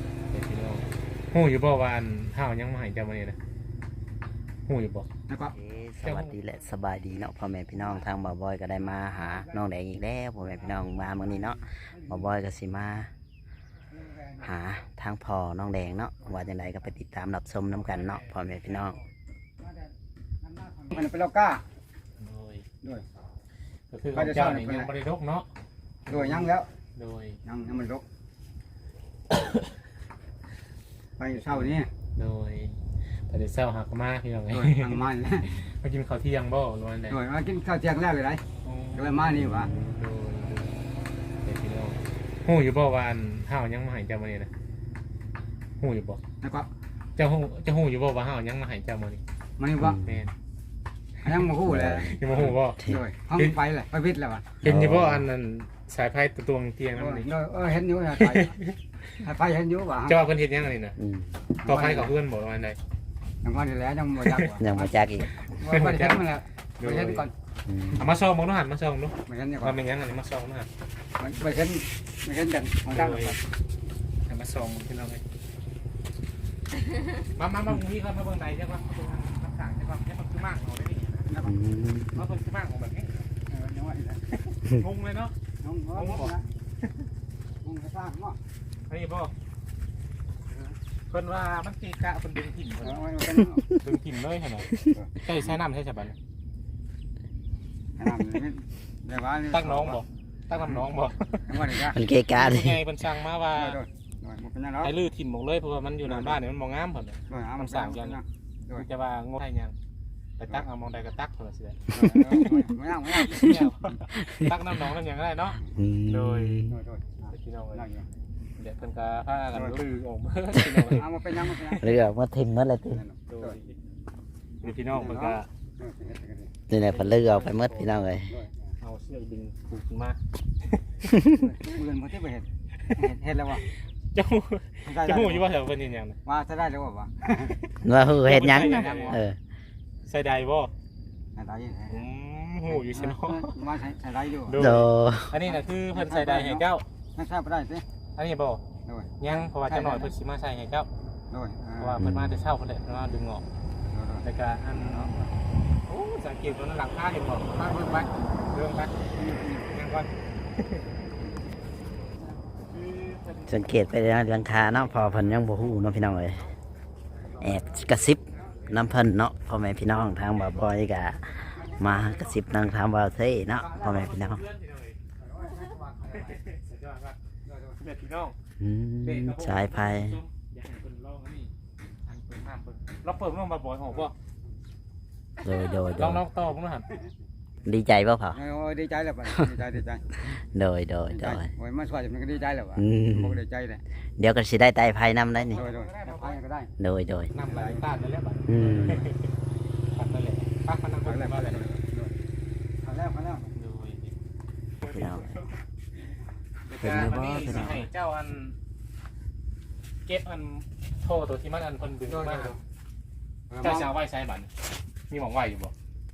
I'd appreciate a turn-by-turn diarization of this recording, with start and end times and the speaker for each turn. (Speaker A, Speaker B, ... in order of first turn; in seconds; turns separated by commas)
Speaker A: 0.3-3.4, Speaker A: 4.7-5.1, Speaker B: 5.3-5.5, Speaker C: 5.5-13.1, Speaker A: 6.0-6.3, Speaker B: 8.9-9.6, Speaker B: 10.7-12.3, Speaker B: 13.9-14.5, Speaker C: 14.4-19.0, Speaker A: 17.8-19.0, Speaker B: 19.6-21.6, Speaker A: 22.2-22.6, Speaker A: 23.9-25.5, Speaker B: 24.1-24.9, Speaker A: 26.1-27.4, Speaker B: 26.1-26.7, Speaker B: 27.4-28.1, Speaker B: 31.2-31.9, Speaker A: 32.2-32.8, Speaker A: 33.3-37.2, Speaker B: 34.5-35.6, Speaker B: 37.1-38.4, Speaker A: 38.6-40.9, Speaker B: 38.9-39.7, Speaker A: 41.4-44.5, Speaker A: 45.8-46.2, Speaker B: 46.4-46.7, Speaker A: 47.2-49.2, Speaker B: 49.6-50.0, Speaker C: 49.8-50.3, Speaker A: 50.0-50.3, Speaker B: 51.2-54.5, Speaker C: 51.6-53.0, Speaker A: 52.0-52.8, Speaker A: 54.6-57.3, Speaker C: 54.6-55.3, Speaker B: 57.0-58.5, Speaker A: 58.2-58.8, Speaker B: 59.2-60.2, Speaker A: 60.0-61.0, Speaker C: 61.0-61.4, Speaker B: 61.6-62.1, Speaker A: 61.6-62.8, Speaker B: 63.4-67.3, Speaker C: 64.6-65.4, Speaker A: 65.5-67.3, Speaker C: 67.7-68.1, Speaker A: 67.9-70.7, Speaker B: 69.3-69.8, Speaker B: 71.2-73.4, Speaker A: 72.9-73.4, Speaker A: 74.2-75.2, Speaker A: 77.2-81.3, Speaker B: 81.3-81.6, Speaker C: 81.4-82.2, Speaker A: 82.1-83.3, Speaker B: 83.5-84.5, Speaker A: 84.7-85.3, Speaker B: 85.6-86.4, Speaker A: 85.9-86.3, Speaker B: 87.6-88.4, Speaker A: 88.9-89.3, Speaker B: 90.5-90.8, Speaker A: 91.1-93.1, Speaker B: 92.8-93.6, Speaker A: 93.8-96.2, Speaker B: 94.9-95.5, Speaker B: 98.0-100.0, Speaker A: 99.5-101.6, Speaker B: 101.5-102.0, Speaker C: 101.8-102.8, Speaker A: 102.3-103.8, Speaker B: 103.5-104.9, Speaker A: 104.8-108.2, Speaker B: 106.0-106.4, Speaker B: 107.3-108.9, Speaker A: 108.8-109.8, Speaker A: 110.4-112.5, Speaker B: 111.9-113.5, Speaker A: 113.2-116.7, Speaker C: 113.3-114.5, Speaker C: 115.7-116.8, Speaker B: 116.7-118.1, Speaker A: 117.3-117.8, Speaker A: 118.5-121.9, Speaker B: 119.5-119.8, Speaker B: 120.8-122.0, Speaker C: 121.8-123.0, Speaker B: 122.9-123.6, Speaker A: 123.3-123.8, Speaker A: 124.6-125.5, Speaker B: 124.6-126.5, Speaker C: 126.7-128.3, Speaker A: 126.9-128.0, Speaker B: 128.3-128.8, Speaker A: 128.8-130.2, Speaker C: 131.1-131.4, Speaker B: 131.3-133.7, Speaker A: 134.0-136.2, Speaker B: 134.8-135.5, Speaker B: 136.3-137.6, Speaker C: 137.8-139.4, Speaker A: 138.2-139.2, Speaker B: 138.4-139.2, Speaker A: 140.1-140.7, Speaker B: 141.4-142.1, Speaker A: 141.9-143.6, Speaker B: 142.7-144.7, Speaker A: 144.5-146.8, Speaker C: 144.6-145.4, Speaker B: 145.4-146.6, Speaker B: 147.2-147.9, Speaker A: 148.2-148.6, Speaker B: 148.8-150.1, Speaker A: 149.2-150.9, Speaker B: 151.3-152.0, Speaker A: 151.8-153.4, Speaker C: 152.0-152.4, Speaker B: 153.9-155.3, Speaker A: 154.2-155.1, Speaker A: 155.9-158.9, Speaker B: 157.6-158.3, Speaker B: 159.1-159.8, Speaker A: 159.7-160.1, Speaker A: 162.7-163.7, Speaker C: 163.5-166.5, Speaker A: 164.7-165.6, Speaker A: 167.4-168.1, Speaker C: 167.4-174.4, Speaker A: 170.1-172.4, Speaker A: 173.5-175.0, Speaker B: 175.2-176.4, Speaker A: 176.1-177.2, Speaker B: 177.4-177.8, Speaker A: 177.8-178.4, Speaker C: 178.6-180.2, Speaker A: 179.0-181.5, Speaker A: 182.1-184.2, Speaker C: 185.4-186.2, Speaker A: 185.9-186.9, Speaker C: 187.7-188.4, Speaker B: 188.3-190.1, Speaker C: 190.3-191.5, Speaker B: 191.1-193.8, Speaker C: 192.8-193.4, Speaker C: 194.2-195.6, Speaker A: 195.4-196.4, Speaker B: 195.5-196.7, Speaker C: 196.8-197.3, Speaker A: 197.3-199.3, Speaker B: 197.4-197.8, Speaker C: 198.5-199.1, Speaker A: 199.9-201.7, Speaker B: 201.0-202.1, Speaker B: 202.8-203.5, Speaker A: 203.6-204.2, Speaker A: 204.8-205.4, Speaker C: 204.9-205.3, Speaker A: 206.7-208.6, Speaker C: 206.8-207.9, Speaker A: 210.1-212.6, Speaker B: 212.1-212.6, Speaker B: 213.5-213.9, Speaker A: 213.6-214.5, Speaker A: 215.1-215.7